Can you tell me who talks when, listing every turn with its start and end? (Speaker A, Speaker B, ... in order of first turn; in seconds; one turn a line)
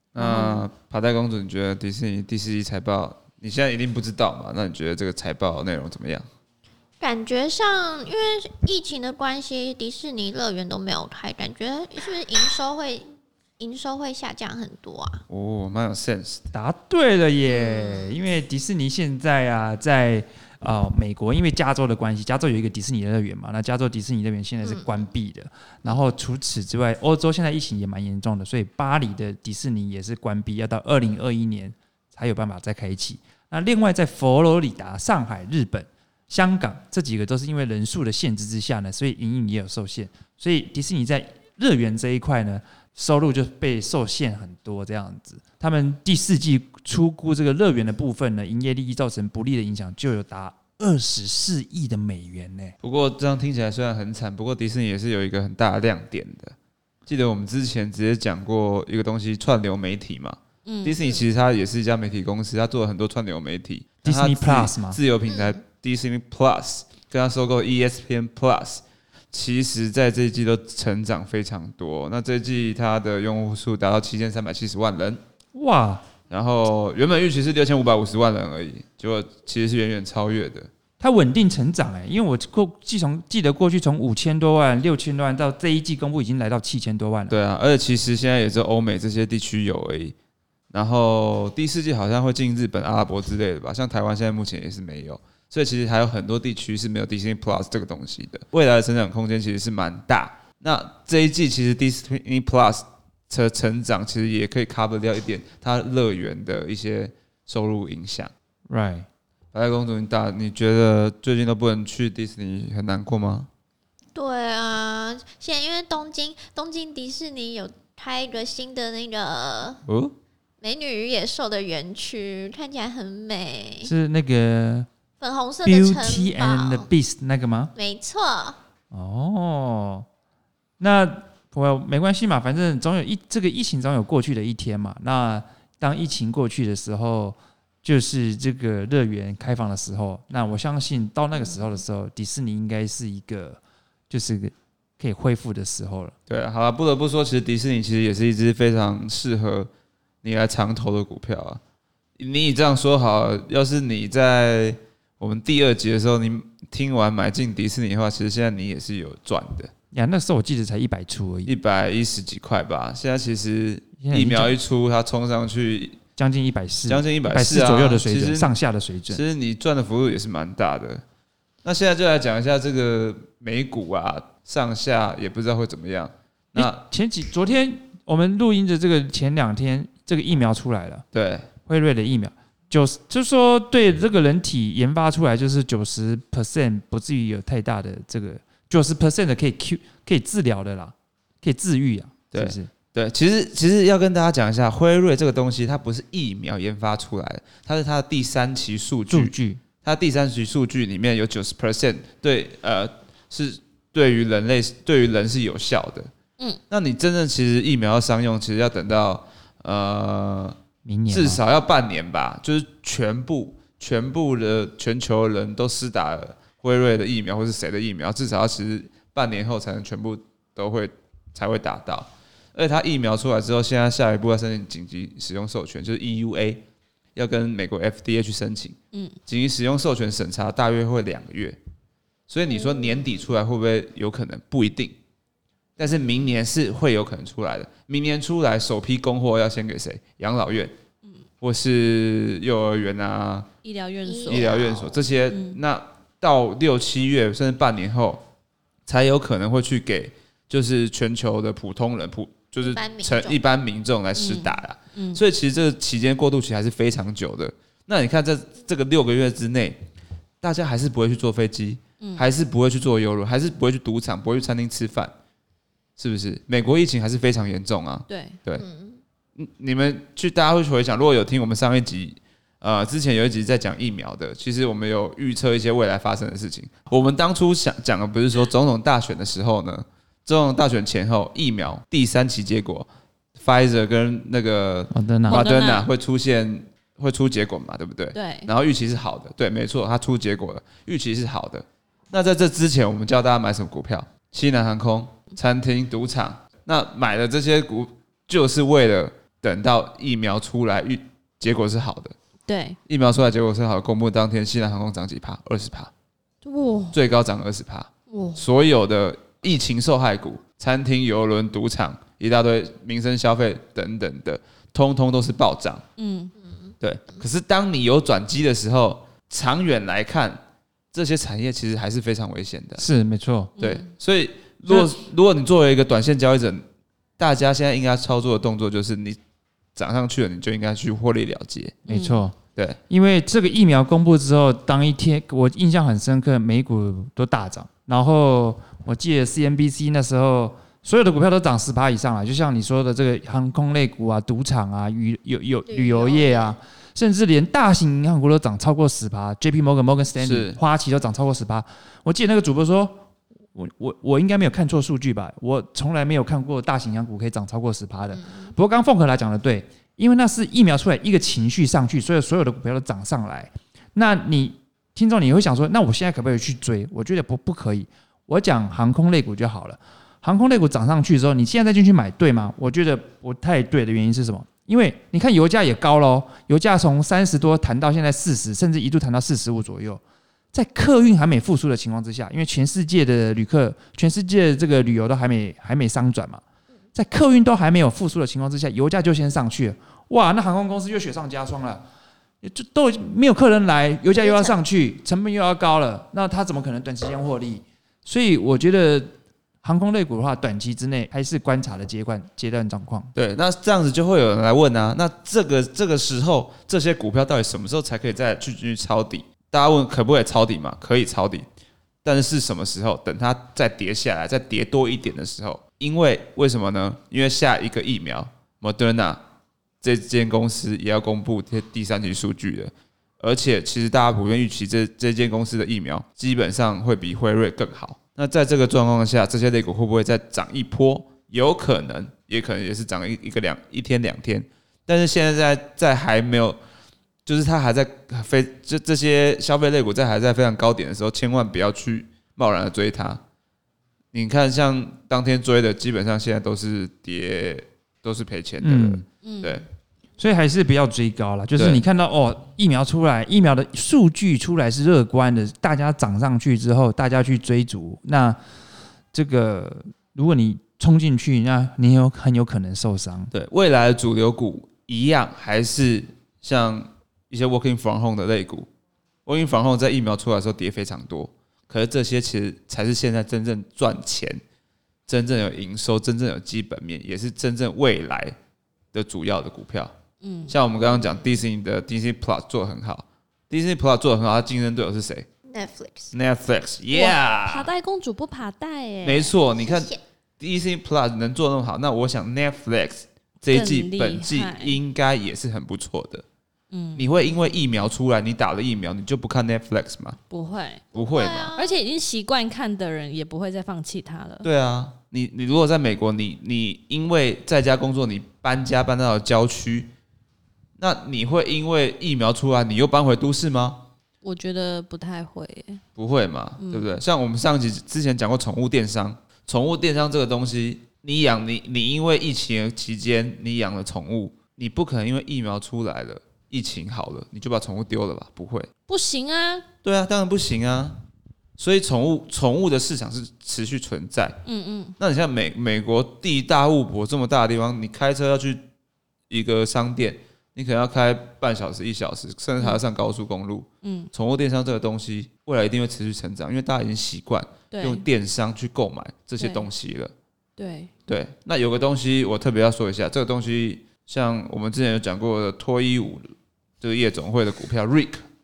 Speaker A: 0.1-6.3
Speaker B: 0.1-0.7
Speaker C: 7.0-13.1
Speaker C: 13.6-15.2
Speaker A: 15.3-16.5
Speaker D: 16.5-52.7
Speaker C: 17.5-18.1
Speaker C: 24.6-25.1
Speaker A: 52.8-56.5
Speaker A: 57.0-75.2
Speaker B: 60.6-61.0
Speaker D: 64.0-65.0
Speaker C: 65.3-65.6
Speaker D: 75.5-76.1
Speaker A: 76.3-80.7
Speaker D: 81.0-87.3
Speaker A: 87.3-90.1
Speaker A: 90.7-108.3
Speaker D: 108.7-109.1
Speaker A: 109.5-113.5
Speaker C: 114.1-119.8
Speaker A: 119.9-120.1
Speaker C: 120.6-123.9
Speaker D: 123.8-124.9
Speaker C: 125.2-126.9
Speaker D: 125.6-127.7
Speaker C: 127.7-128.6
Speaker D: 128.9-130.1
Speaker D: 130.8-146.1
Speaker A: 146.3-149.7
Speaker A: 150.2-151.6
Speaker A: 152.2-159.7
Speaker D: 159.9-161.5
Speaker A: 161.4-166.0
Speaker D: 164.0-164.6
Speaker D: 166.2-169.2
Speaker A: 166.8-168.6
Speaker A: 169.1-171.0
Speaker A: 171.6-176.8
Speaker D: 176.5-181.0
Speaker A: 181.1-181.5
Speaker D: 181.6-192.7
Speaker A: 192.3-206.1
Speaker D: 199.1-199.6
Speaker A: 206.7-210.6
Speaker D: 210.8-211.4
Speaker A: 211.1-231.6
Speaker A: 232.3-235.0
Speaker C: 232.6-233.0
Speaker A: 235.8-240.7
Speaker A: 241.4-243.5
Speaker B: 243.6-244.5
Speaker C: 244.1-245.1
Speaker A: 244.2-248.2
Speaker B: 245.3-245.6
Speaker A: 248.9-259.8
Speaker C: 252.6-253.4
Speaker B: 254.2-255.2
Speaker A: 260.4-265.1
Speaker A: 266.0-268.6
Speaker B: 268.1-268.4
Speaker C: 268.5-269.0
Speaker A: 269.4-302.1
Speaker D: 284.9-285.4
Speaker B: 285.2-285.9
Speaker B: 288.1-288.5
Speaker B: 302.5-302.8
Speaker A: 302.9-305.9
Speaker B: 306.4-307.0
Speaker A: 306.9-315.8
Speaker B: 308.1-308.4
Speaker B: 316.0-316.3
Speaker C: 316.4-316.7
Speaker A: 316.8-320.4
Speaker A: 320.9-322.8
Speaker D: 322.8-323.5
Speaker B: 323.6-323.9
Speaker A: 323.6-326.6
Speaker D: 324.7-324.9
Speaker A: 327.2-329.2
Speaker A: 329.8-332.0
Speaker B: 331.9-332.3
Speaker D: 331.9-332.4
Speaker D: 332.9-353.0
Speaker C: 345.6-346.6
Speaker A: 350.2-350.6
Speaker D: 353.5-380.0
Speaker D: 380.5-386.4
Speaker D: 386.9-391.8
Speaker D: 392.4-403.1
Speaker C: 394.1-394.6
Speaker A: 403.1-411.5
Speaker A: 412.0-419.2
Speaker A: 419.8-436.6
Speaker A: 437.2-443.2
Speaker A: 444.1-449.6
Speaker D: 448.6-449.0
Speaker B: 449.2-449.6
Speaker D: 450.2-458.4
Speaker A: 451.6-451.8
Speaker D: 459.1-463.3
Speaker A: 463.3-468.7
Speaker A: 469.2-474.4
Speaker A: 475.1-478.4
Speaker A: 478.9-479.9
Speaker B: 480.2-480.5
Speaker A: 480.5-485.3
Speaker C: 485.5-486.1
Speaker A: 486.1-487.7
Speaker B: 486.9-489.4
Speaker A: 489.0-496.2
Speaker C: 489.6-490.0
Speaker B: 493.5-494.8
Speaker B: 496.7-497.1
Speaker A: 496.9-500.2
Speaker B: 500.3-500.8
Speaker A: 500.9-501.5
Speaker C: 501.0-501.8
Speaker B: 501.5-504.5
Speaker A: 504.4-509.9
Speaker A: 510.8-513.9
Speaker B: 514.2-515.8
Speaker A: 516.0-528.7
Speaker B: 516.6-517.0
Speaker B: 528.9-529.7
Speaker A: 529.8-531.0
Speaker A: 531.6-534.4
Speaker B: 534.4-534.9
Speaker A: 535.0-538.6
Speaker A: 539.3-550.1
Speaker B: 543.8-544.1
Speaker B: 547.7-548.0
Speaker B: 549.4-549.7
Speaker B: 550.6-550.9
Speaker A: 551.1-558.2